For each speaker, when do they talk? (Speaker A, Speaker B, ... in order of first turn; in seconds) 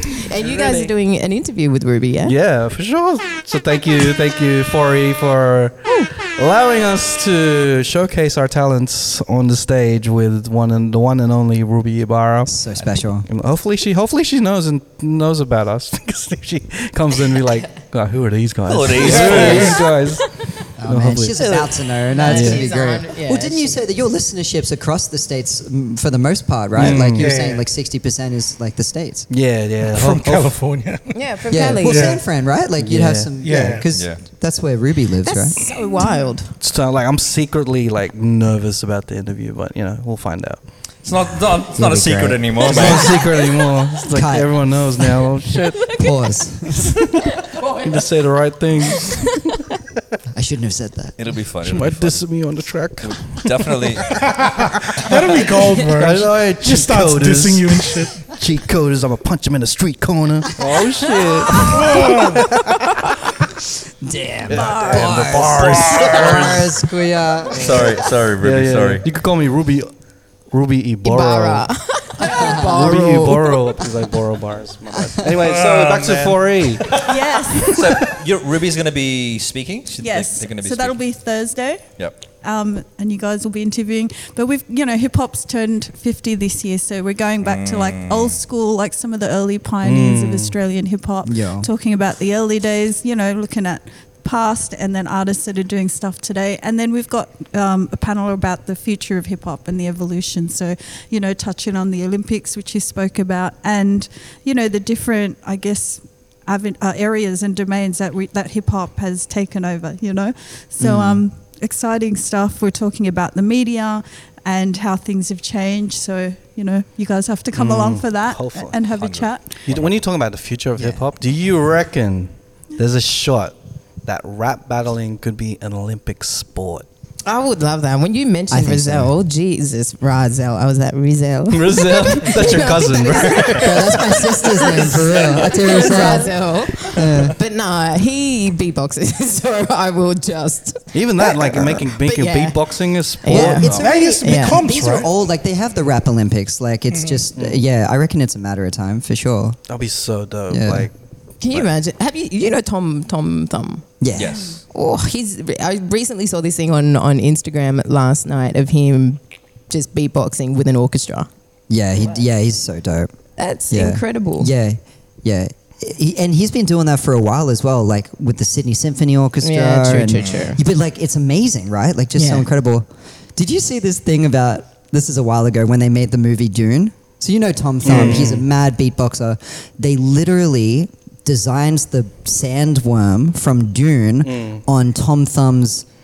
Speaker A: 0.2-2.3, 17.3-17.6, 19.6-20.6, 21.5-23.8, 31.1-32.2, 35.2-36.5, 47.5-48.1, 48.9-49.2, 55.5-56.0, 61.1-62.3, 64.5-65.1, 71.0-73.9, 127.2-144.6, 151.4-153.8, 154.7-161.3, 163.4-164.5, 169.4-170.6, 172.2-172.5
Speaker B: 0.4-0.9, 2.2-12.6, 13.2-20.3, 20.8-21.7, 22.3-22.6, 26.8-27.3, 29.3-30.5, 32.8-33.8, 36.5-40.6, 42.6-45.9, 47.8-49.5, 51.6-54.1, 56.0-62.1, 64.5-66.7, 67.5-69.9, 70.5-71.7, 72.7-76.9, 89.8-90.5, 110.8-111.2, 117.5-118.8, 119.6-126.9, 131.5-133.9, 140.9-143.9, 147.3-147.6, 149.7-150.9, 177.8-178.4, 184.2-184.6
Speaker C: 12.5-13.3, 20.8-29.3, 31.5-35.6, 41.7-43.2, 44.1-45.2, 45.9-47.1, 50.3-51.1, 64.0-68.0, 72.2-72.9, 91.2-91.7, 110.8-111.2, 120.8-121.0, 128.5-129.1, 133.5-137.4, 143.3-149.6, 150.5-150.9, 154.0-154.6, 161.7-163.1, 163.7-185.8
Speaker D: 18.6-19.8, 33.9-34.2, 41.0-43.2, 51.2-52.5, 53.0-54.2, 65.6-66.3, 67.5-69.0, 75.4-81.0, 87.4-88.4, 118.9-119.9, 154.1-154.6
Speaker E: 19.0-19.8, 26.9-27.6, 29.9-31.1, 31.8-32.2, 33.4-33.9, 54.3-58.2, 61.6-62.5, 143.7-145.1
Speaker F: 77.0-77.9, 80.0-81.8, 82.4-119.5